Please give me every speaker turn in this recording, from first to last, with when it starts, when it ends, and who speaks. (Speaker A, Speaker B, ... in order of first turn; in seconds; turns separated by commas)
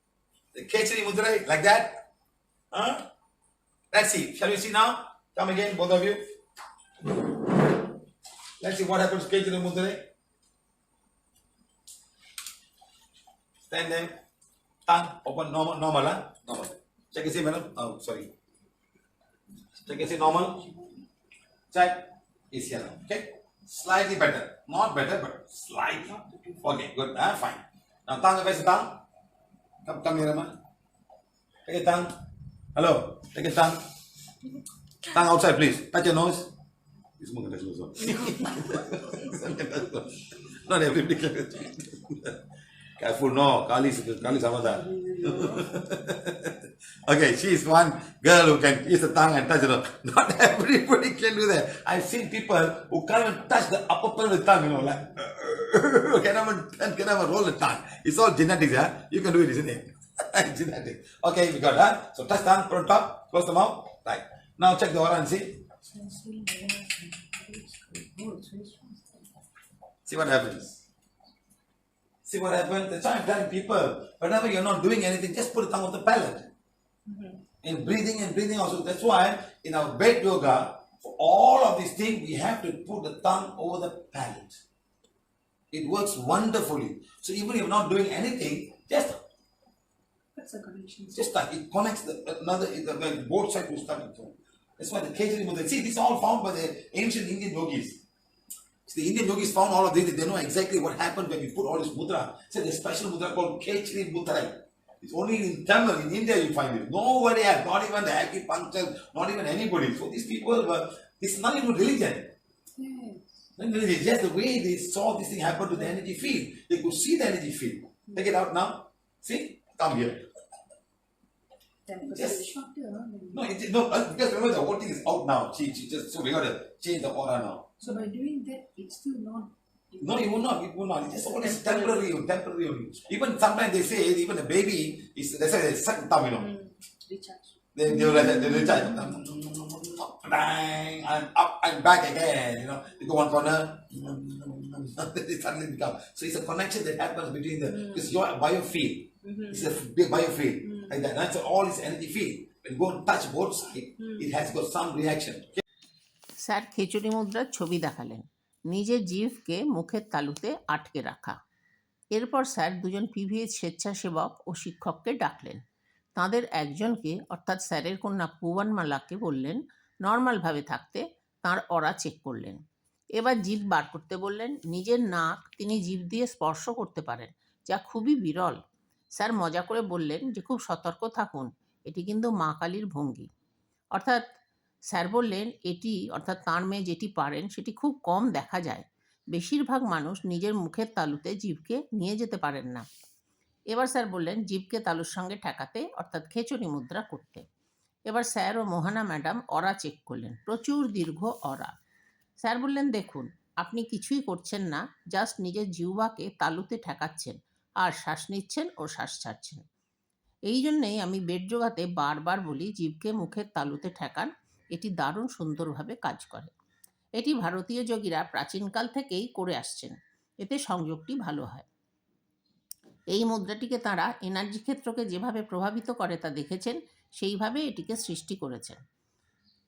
Speaker A: 0.5-2.0, Speaker A: 2.7-3.0, Speaker A: 3.9-6.2, Speaker A: 8.6-10.0, Speaker A: 13.7-14.2, Speaker A: 14.9-18.3, Speaker A: 19.8-20.6, Speaker A: 21.7-29.0, Speaker B: 26.2-26.6, Speaker A: 29.8-30.5, Speaker A: 31.6-32.1, Speaker A: 32.7-33.8, Speaker A: 35.0-36.5, Speaker A: 37.2-42.4, Speaker A: 43.0-65.6, Speaker B: 45.1-45.7, Speaker B: 65.8-69.3, Speaker A: 70.0-70.8, Speaker A: 72.2-76.5, Speaker B: 77.1-77.4, Speaker A: 77.6-84.6, Speaker A: 85.7-89.1, Speaker B: 90.3-91.2, Speaker A: 91.1-98.0, Speaker A: 98.9-112.3, Speaker B: 112.8-113.2, Speaker A: 113.6-120.2, Speaker B: 121.8-123.4, Speaker A: 122.0-122.5, Speaker A: 123.3-127.7, Speaker B: 127.8-130.4, Speaker A: 130.0-136.5, Speaker B: 131.4-132.0, Speaker B: 136.3-139.1, Speaker A: 137.7-155.6, Speaker B: 147.7-148.1, Speaker B: 149.2-149.7, Speaker B: 150.7-150.9, Speaker C: 156.4-161.3, Speaker C: 162.1-165.6, Speaker C: 166.2-172.6, Speaker C: 173.2-178.6, Speaker C: 179.2-183.3, Speaker C: 183.9-184.2, Speaker C: 184.9-192.8, Speaker C: 193.7-197.4, Speaker C: 198.1-201.7, Speaker C: 202.4-209.6, Speaker C: 210.5-216.5, Speaker C: 217.2-221.7, Speaker C: 223.1-228.8